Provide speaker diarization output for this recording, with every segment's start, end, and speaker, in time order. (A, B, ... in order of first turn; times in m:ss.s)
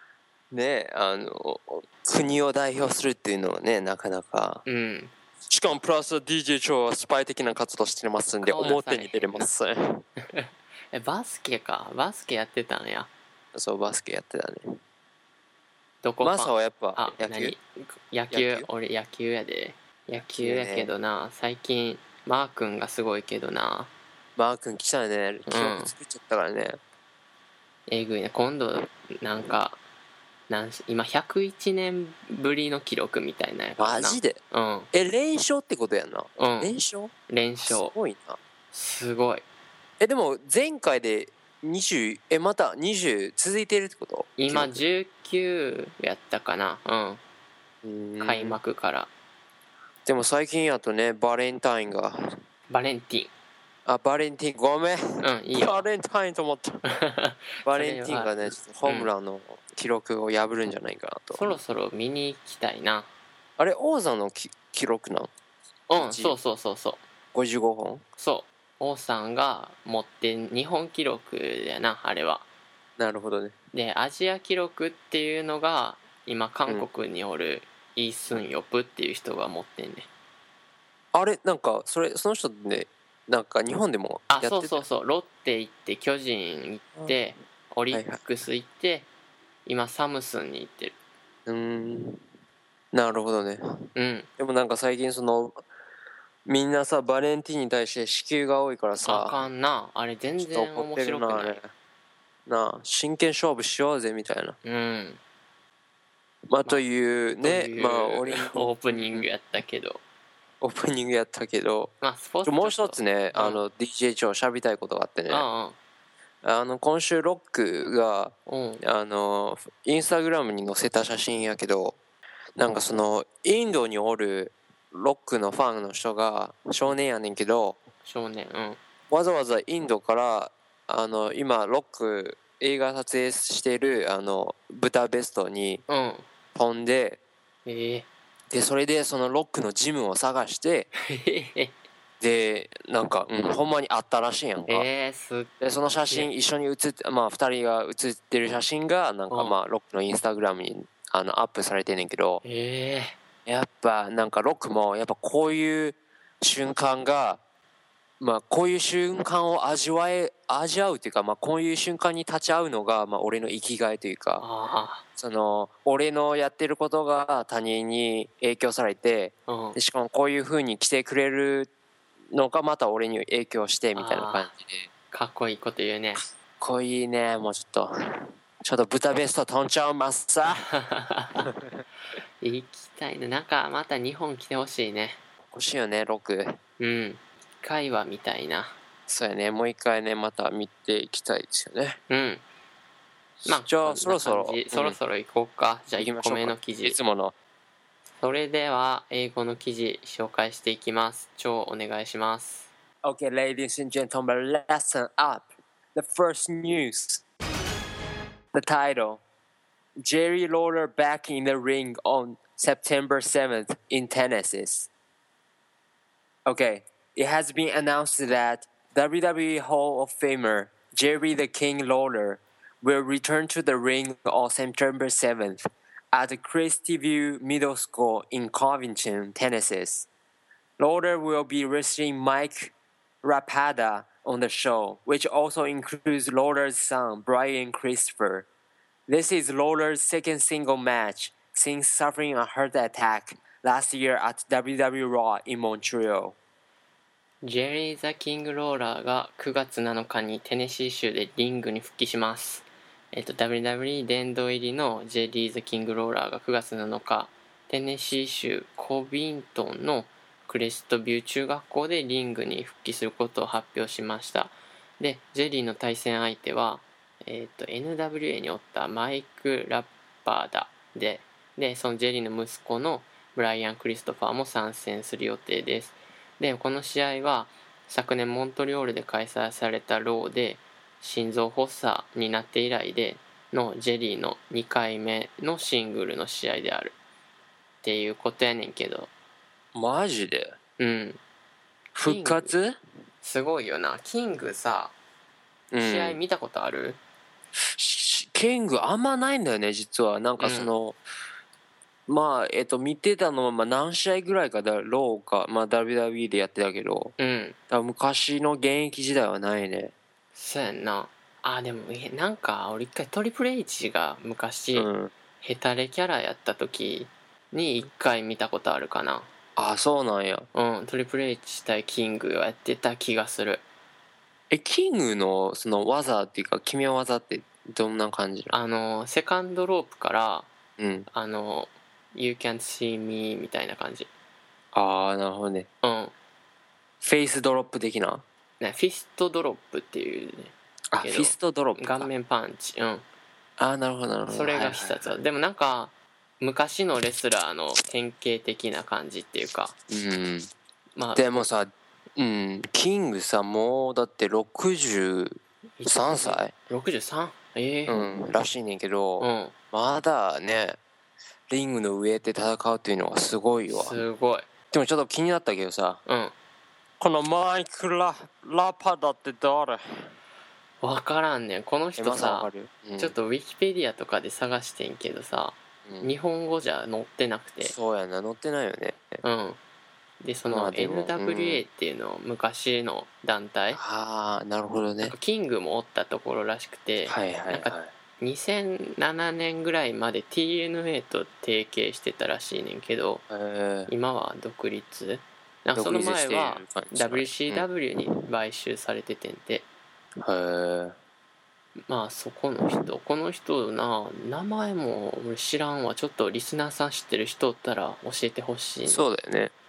0:00.5-0:04.6 A
0:04.7-0:05.1 B
0:05.5-0:10.0 A
0:08.4-0:09.5 B
0:10.2-0:13.1 B
0:13.5-0:14.8 A
0:16.0-0:23.9 B
0:16.2-0:17.6 A
0:18.3-0:18.7 A
0:20.4-0:20.9 A
0:24.4-0:26.8 A
0:25.5-0:25.9 B
0:27.9-0:29.8 B
0:30.5-0:34.9 B
0:33.8-0:34.4 A
0:34.9-0:38.4 A
0:36.4-0:36.7 B
0:37.3-0:37.9 B
0:38.7-0:39.4 B
0:40.0-0:44.8 A
0:44.4-0:47.2 B
0:47.8-0:48.6 A
0:48.2-0:49.1 B
0:50.1-0:52.4 A
0:52.7-0:53.3 B
0:53.9-0:56.8 A
0:55.2-0:55.9 B
0:56.9-0:59.1 B
0:57.6-1:01.6 A
1:01.3-1:03.1 B
1:03.6-1:05.3 A
1:05.9-1:07.0 B
1:06.0-1:06.4 A
1:07.3-1:08.0 A
1:08.2-1:12.5 B
1:13.0-1:13.5 A
1:13.7-1:20.1 B
1:21.1-1:24.8 A
1:24.3-1:29.1 B
1:27.9-1:28.2 A
1:29.7-1:31.0 B
1:31.5-1:32.2 A
1:32.9-1:33.6 A
1:34.0-1:34.3 B
1:34.4-1:35.6 A
1:36.5-1:39.4 A
1:39.0-1:41.6 B
1:40.4-1:41.7 A
1:42.5-1:44.6 A
1:44.6-1:45.2 B
1:46.5-1:49.2 A
1:47.4-1:50.0 B
1:50.6-1:51.9 A
1:52.0-1:53.6 B
1:52.4-1:55.5 A
1:55.3-1:55.8 B
1:56.4-2:02.0 A
1:58.5-1:58.8 B
2:02.6-2:07.8 A
2:08.0-2:08.8 B
2:09.1-2:15.8 A
2:15.9-2:16.2 B
2:16.6-2:17.2 A
2:17.7-2:18.1 B
2:18.5-2:20.9 A
2:21.0-2:21.7 B
2:22.2-2:24.9 A
2:24.7-2:25.5 B
2:25.6-2:32.4 A
2:29.3-2:29.6 B
2:32.4-2:33.2 B
2:33.5-2:37.4 A
2:38.2-2:44.4 A
2:44.4-2:45.0 B
2:45.2-2:51.7 A
2:49.5-2:49.8 B
2:52.3-2:54.9 A
2:54.0-2:54.5 B
2:55.1-2:56.2 B
2:56.6-3:00.7 A
3:00.5-3:01.5 B
3:01.5-3:01.8 A
3:02.4-3:05.2 B
3:05.5-3:06.5 A
3:06.8-3:08.8 B
3:09.1-3:12.0 A
3:12.1-3:12.4 B
3:13.4-3:15.0 A
3:13.4-3:17.0 B
3:16.0-3:17.4 A
3:18.2-3:22.7 B
3:23.0-3:27.2 A
3:28.5-3:29.2 A
3:30.0-3:34.9 A
3:36.5-3:50.1 A
3:50.8-3:58.5 A
3:59.1-4:06.4 A
4:07.4-4:47.0 B
4:47.8-4:49.1 B
4:49.7-4:50.6 A
4:50.8-4:51.2 B
4:52.0-4:52.8 A
4:52.0-4:52.5 B
4:53.2-4:54.9 B
4:55.7-4:56.2 A
4:55.8-4:57.0 B
4:57.6-5:01.0 A
5:00.4-5:00.7 B
5:02.1-5:07.1 A
5:07.2-5:07.6 B
5:07.7-5:09.9 A
5:10.4-5:14.9 B
5:14.7-5:15.1 A
5:15.4-5:19.3 B
5:19.6-5:20.5 A
5:20.5-5:23.6 B
5:24.5-5:28.5 A
5:28.5-5:30.5 B
5:30.8-5:31.1 A
5:31.1-5:34.1 B
5:34.7-5:35.7 A
5:35.8-5:36.1 B
5:37.0-5:38.2 A
5:38.6-5:43.0 B
5:40.9-5:42.1 A
5:43.6-5:45.2 A
5:44.3-5:49.8 B
5:49.9-5:50.5 A
5:51.0-5:51.5 B
5:51.2-5:56.5 A
5:55.8-5:58.0 B
5:57.9-6:00.8 A
5:59.2-5:59.5 B
6:01.5-6:04.0 A
6:03.7-6:04.5 B
6:04.7-6:06.0 A
6:06.1-6:06.3 B
6:07.0-6:10.1 A
6:10.8-6:17.7 B
6:12.0-6:13.2 A
6:15.9-6:16.1 A
6:17.6-6:19.2 A
6:19.2-6:19.6 B
6:20.2-6:23.8 B
6:20.5-6:21.6 A
6:23.7-6:25.1 A
6:25.1-6:33.2 B
6:27.1-6:27.9 A
6:33.3-6:33.9 A
6:33.9-6:39.6 B
6:35.8-6:38.2 A
6:40.2-6:41.0 A
6:41.9-6:49.0 B
6:48.9-6:49.5 A